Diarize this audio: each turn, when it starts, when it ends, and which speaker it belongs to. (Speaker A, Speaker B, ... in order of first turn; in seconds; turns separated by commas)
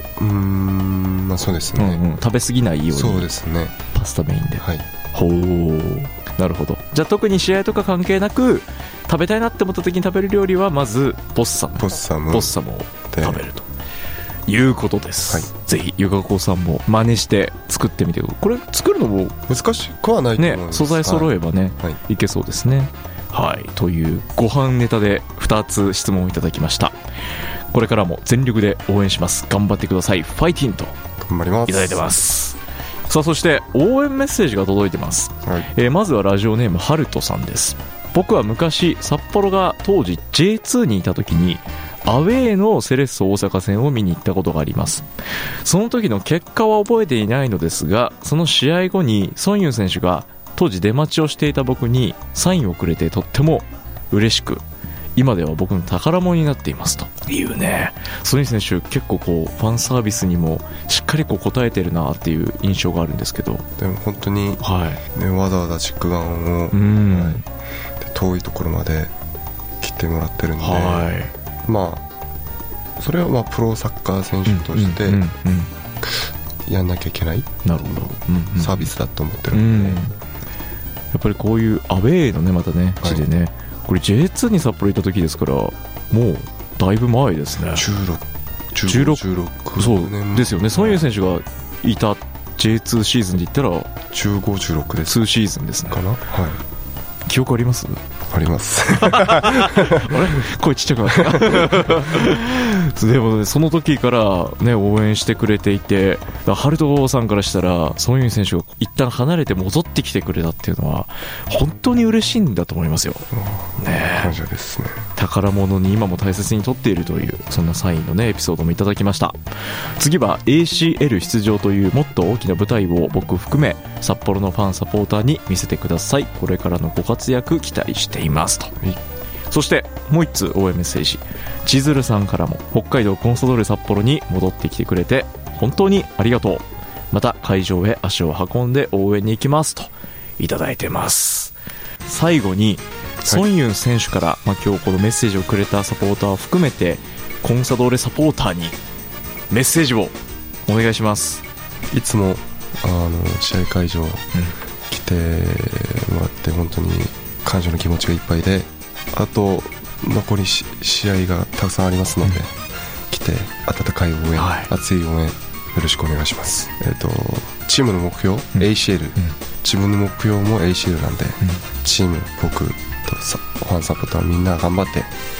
Speaker A: 0.2-2.0, Speaker B: 1.8-3.3, Speaker A: 2.9-3.7, Speaker B: 3.9-13.7, Speaker A: 4.6-4.8, Speaker A: 11.8-12.5, Speaker A: 13.1-13.4, Speaker B: 14.5-19.4, Speaker A: 19.5-21.3, Speaker B: 20.4-26.9, Speaker B: 27.7-30.9, Speaker A: 31.2-32.1, Speaker B: 31.7-45.0, Speaker B: 45.6-54.6, Speaker B: 55.1-63.6, Speaker A: 63.8-67.4, Speaker B: 64.6-65.0, Speaker B: 66.7-67.4, Speaker A: 68.0-69.1, Speaker A: 69.8-71.1, Speaker B: 70.6-71.3, Speaker A: 71.7-72.0, Speaker A: 73.0-75.2, Speaker B: 74.5-75.7, Speaker A: 76.0-80.0, Speaker B: 77.6-78.9, Speaker B: 79.5-80.1, Speaker B: 81.1-87.9, Speaker A: 87.7-91.0, Speaker B: 88.8-93.9, Speaker A: 94.1-95.2, Speaker B: 95.0-96.0, Speaker A: 95.9-96.6, Speaker B: 97.3-98.0, Speaker A: 98.3-100.3, Speaker B: 99.0-113.3, Speaker A: 101.1-102.0, Speaker A: 113.3-115.0, Speaker B: 113.8-114.4, Speaker B: 115.2-119.4, Speaker B: 120.0-128.7, Speaker B: 129.5-148.8, Speaker B: 149.5-150.1, Speaker B: 150.7-151.4, Speaker A: 151.9-154.2, Speaker A: 154.9-162.5, Speaker A: 163.1-175.1, Speaker B: 164.3-164.7, Speaker B: 168.6-169.3